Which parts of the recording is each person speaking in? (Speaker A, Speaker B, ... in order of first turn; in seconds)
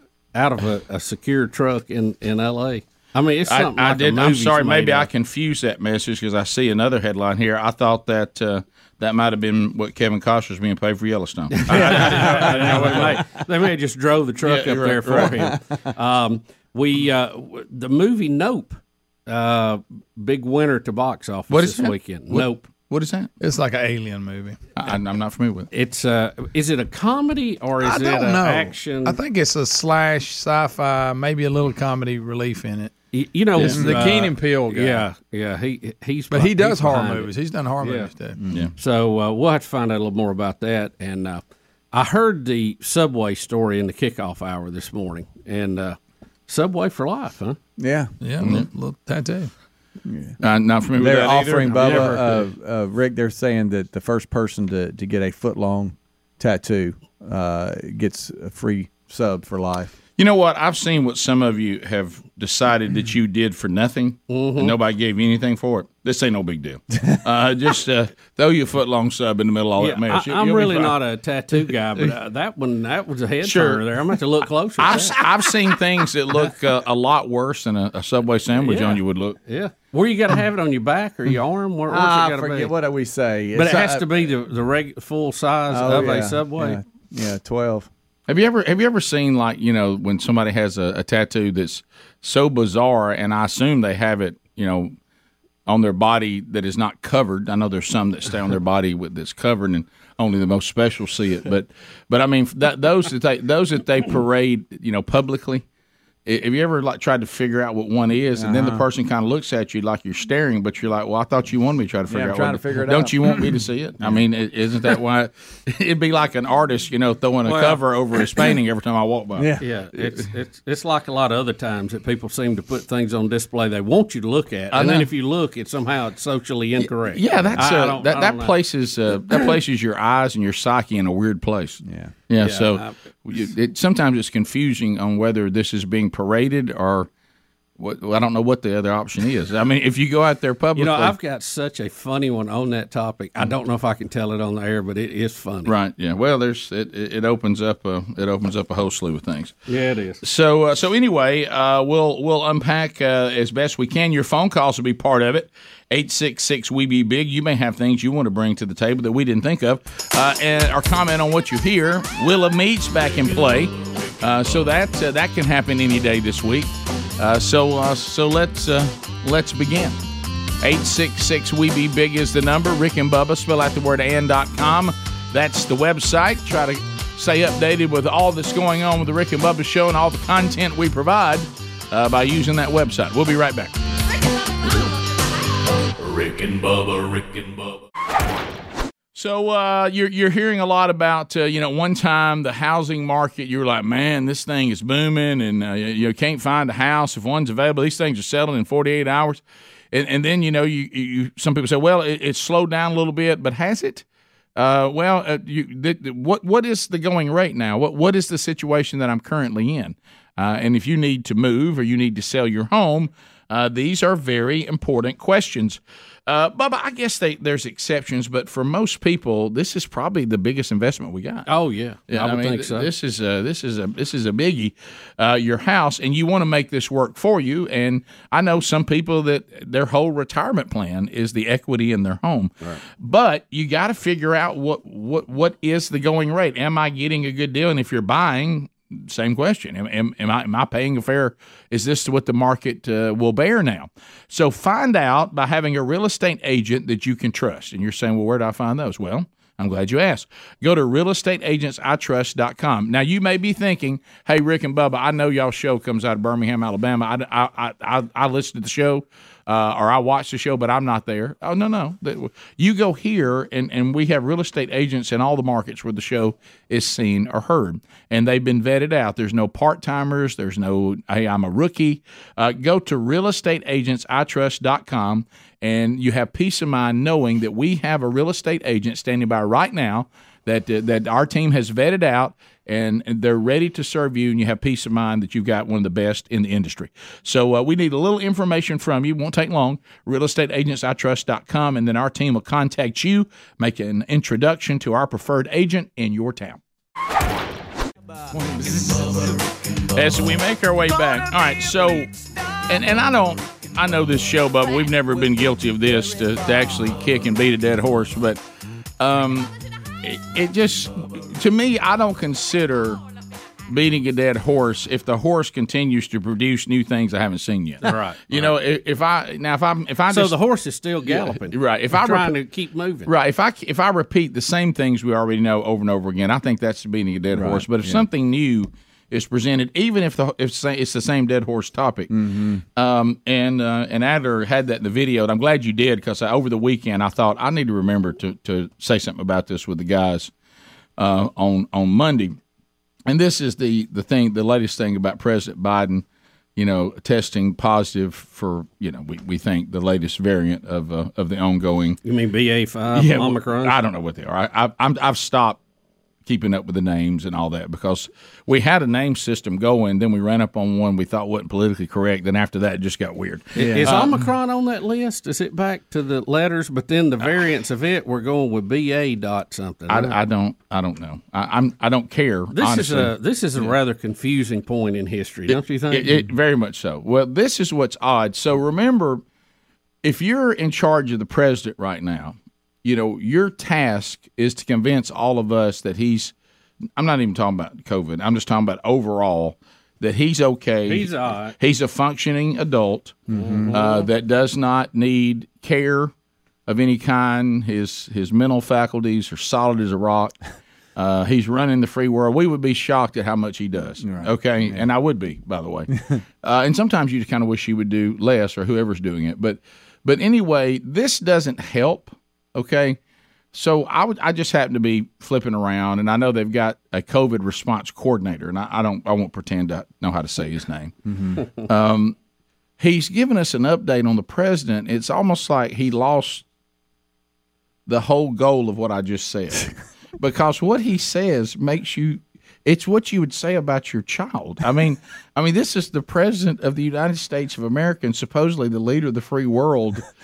Speaker A: 0.3-5.1, 11.5-22.6, 25.7-29.2, 33.1-38.1, 38.8-47.6, 64.3-64.7, 69.8-75.3, 78.6-82.7, 83.5-86.8, 117.5-117.7, 119.6-128.5, 132.4-132.9, 140.7-145.7, 149.7-150.2, 221.5-222.9, 317.8-318.5, 320.1-323.1, 352.0-353.8, 363.6-370.1, 372.5-376.1, 390.9-391.5, 393.3-394.0
Speaker B: 3.5-13.2, 14.4-15.4, 21.5-23.3, 24.8-25.7, 50.4-52.2, 60.2-71.0, 73.4-73.8, 74.8-79.4, 88.3-94.9, 95.7-105.6, 106.2-119.6, 124.7-125.1, 126.8-137.1, 137.8-141.1, 145.7-149.5, 150.2-170.0, 170.6-183.7, 189.1-199.4, 199.9-204.0, 204.6-221.5, 222.1-296.6, 298.4-299.3, 299.9-302.1, 302.7-308.4, 309.0-313.0, 313.7-320.4, 321.1-322.3, 323.1-332.1, 332.8-340.3, 341.0-342.4, 343.1-346.0, 346.6-352.0, 352.9-355.6, 356.2-364.1, 369.9-373.1, 375.5-379.2, 380.0-386.3, 386.9-396.1, 396.7-400.3, 400.9-413.0, 413.5-422.1, 422.8-426.4, 427.9-440.0
Speaker C: 12.5-12.8, 23.4-24.6, 27.8-32.9, 33.5-35.1, 36.3-38.4, 48.2-49.5, 51.2-52.2
Speaker D: 15.2-15.5, 38.4-38.7, 47.8-48.1, 50.0-50.4, 50.9-59.9, 81.9-84.2, 85.7-87.9, 108.3-108.8, 112.1-114.2, 119.3-119.6, 131.8-132.1, 327.3-328.0, 332.1-332.6, 363.6-364.1, 393.3-393.8, 404.0-404.9, 421.1-421.4
Speaker E: 163.7-164.6, 186.0-187.8